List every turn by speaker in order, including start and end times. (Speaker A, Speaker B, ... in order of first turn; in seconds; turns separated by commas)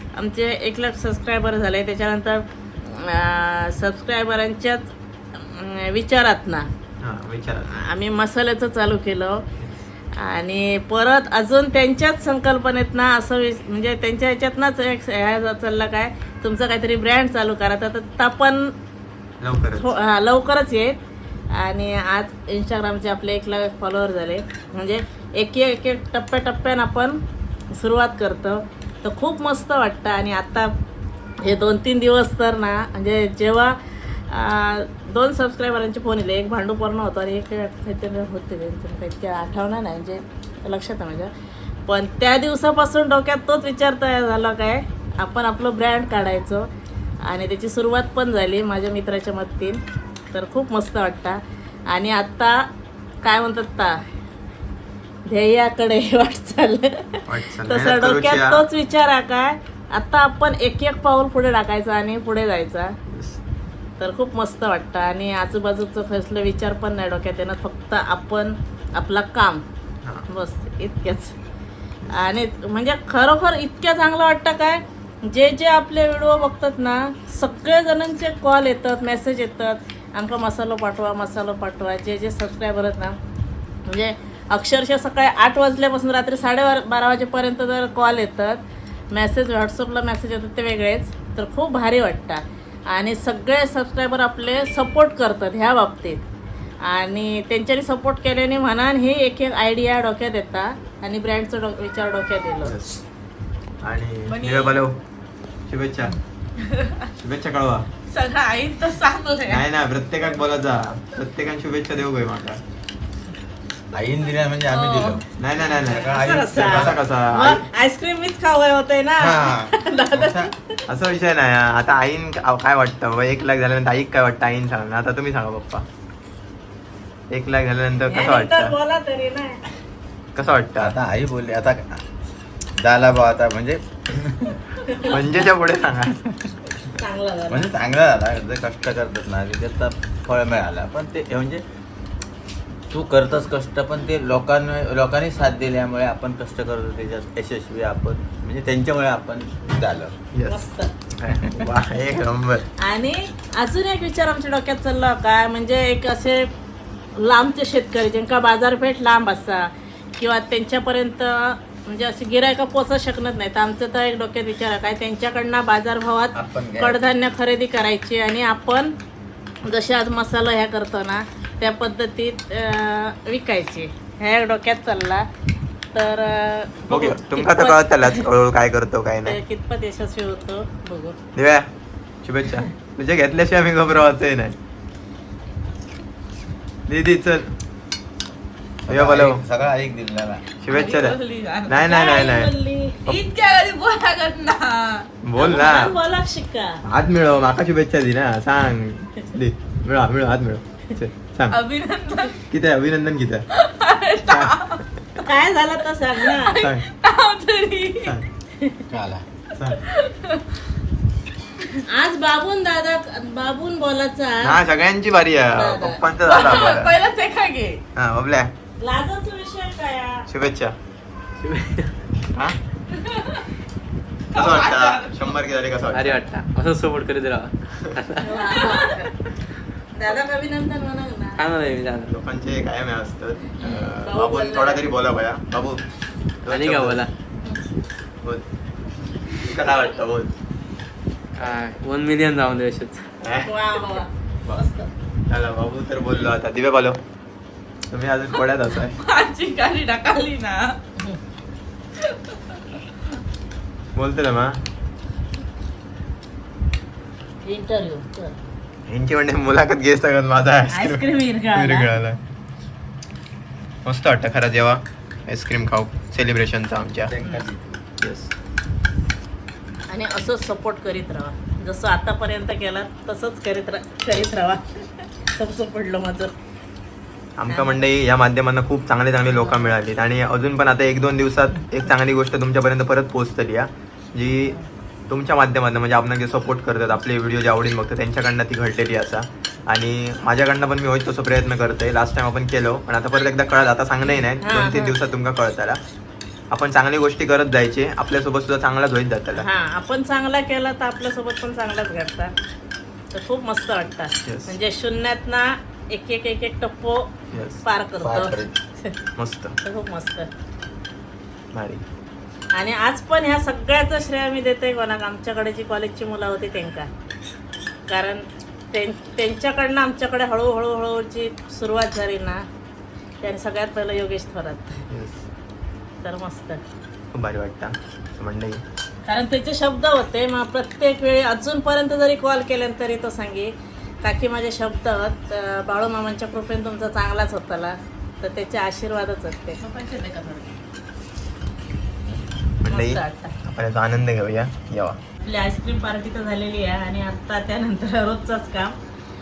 Speaker A: 0.2-6.7, Speaker B: 7.0-7.7, Speaker A: 7.7-9.4, Speaker A: 10.2-18.7, Speaker B: 19.4-19.9, Speaker A: 19.7-21.0, Speaker A: 21.5-27.2, Speaker A: 27.8-30.7, Speaker A: 31.4-41.3, Speaker A: 41.9-46.7, Speaker A: 47.2-49.8, Speaker A: 50.3-52.5, Speaker A: 53.2-54.0, Speaker A: 55.3-62.9, Speaker B: 57.3-58.6, Speaker B: 63.1-63.4, Speaker A: 64.0-69.6, Speaker A: 70.3-71.3, Speaker A: 72.1-83.2, Speaker A: 83.9-88.6, Speaker A: 89.1-96.2, Speaker A: 96.9-102.7, Speaker B: 102.6-103.0, Speaker B: 103.8-105.0, Speaker B: 105.7-106.2, Speaker B: 107.2-107.9, Speaker C: 108.1-109.6, Speaker B: 109.5-112.6, Speaker D: 113.9-115.2, Speaker B: 115.4-117.6, Speaker A: 115.8-120.6, Speaker D: 115.9-117.0, Speaker D: 119.2-120.5, Speaker B: 120.9-125.8, Speaker B: 127.3-128.7, Speaker A: 128.1-129.6, Speaker B: 130.3-130.9, Speaker D: 130.8-132.0, Speaker D: 132.8-134.6, Speaker A: 134.9-135.2, Speaker B: 135.0-136.2, Speaker A: 136.9-137.7, Speaker D: 137.5-141.6, Speaker D: 142.9-150.1, Speaker B: 150.3-152.7, Speaker A: 150.5-150.9, Speaker A: 152.8-156.5, Speaker A: 157.2-168.9, Speaker D: 166.3-167.0, Speaker A: 169.6-175.2, Speaker A: 175.9-178.3, Speaker B: 176.9-179.4, Speaker A: 179.2-181.2, Speaker B: 181.3-181.7, Speaker B: 182.2-184.6, Speaker B: 186.9-187.5, Speaker D: 188.8-190.4, Speaker B: 188.9-189.4, Speaker B: 190.6-192.5, Speaker C: 190.8-191.7, Speaker A: 191.7-193.1, Speaker C: 193.1-195.0, Speaker B: 195.2-195.9, Speaker A: 195.4-196.8, Speaker B: 196.8-201.6, Speaker C: 201.5-202.3, Speaker B: 202.5-203.4, Speaker C: 203.8-204.8, Speaker B: 204.2-204.6, Speaker A: 205.2-206.7, Speaker B: 206.5-206.9, Speaker C: 206.5-208.1, Speaker D: 208.9-209.2, Speaker B: 209.5-209.9, Speaker A: 209.9-210.4, Speaker A: 211.8-214.6, Speaker B: 214.4-216.9, Speaker A: 215.6-216.8, Speaker C: 216.3-216.9, Speaker E: 216.8-217.8, Speaker B: 217.9-218.5, Speaker A: 218.8-220.2, Speaker B: 220.3-220.7, Speaker E: 221.4-221.9, Speaker B: 222.3-222.6, Speaker A: 222.9-223.5, Speaker B: 224.3-226.2, Speaker E: 224.3-225.2, Speaker E: 225.9-229.0, Speaker A: 228.2-229.1, Speaker A: 229.9-231.4, Speaker E: 231.4-232.1, Speaker B: 232.0-235.8, Speaker A: 233.6-234.8, Speaker B: 236.4-237.0, Speaker E: 236.5-237.1, Speaker B: 239.3-240.3, Speaker E: 241.4-243.0, Speaker B: 243.2-243.5, Speaker A: 243.4-244.9, Speaker B: 245.3-247.0, Speaker B: 247.9-249.0, Speaker C: 249.0-250.7, Speaker B: 253.9-254.6, Speaker A: 257.4-258.4, Speaker B: 258.9-262.2, Speaker A: 260.7-261.9, Speaker B: 263.8-267.1, Speaker D: 267.1-267.8, Speaker B: 268.0-268.3, Speaker A: 269.9-276.3, Speaker B: 277.4-284.6, Speaker A: 277.5-277.8, Speaker A: 279.4-279.7, Speaker B: 285.1-295.8, Speaker A: 294.4-294.9, Speaker B: 296.5-299.4, Speaker A: 299.3-302.3, Speaker A: 303.1-307.1, Speaker B: 304.2-304.6, Speaker B: 307.3-307.6, Speaker A: 307.6-308.9, Speaker D: 308.0-308.5, Speaker B: 309.1-309.6, Speaker A: 309.6-310.3, Speaker B: 311.5-311.8, Speaker A: 312.5-316.9, Speaker A: 317.9-322.4, Speaker A: 323.2-324.8, Speaker B: 324.9-325.3, Speaker A: 326.0-326.6, Speaker B: 327.1-328.6, Speaker A: 329.1-340.5, Speaker B: 342.6-345.0, Speaker A: 342.7-343.3, Speaker A: 345.2-348.8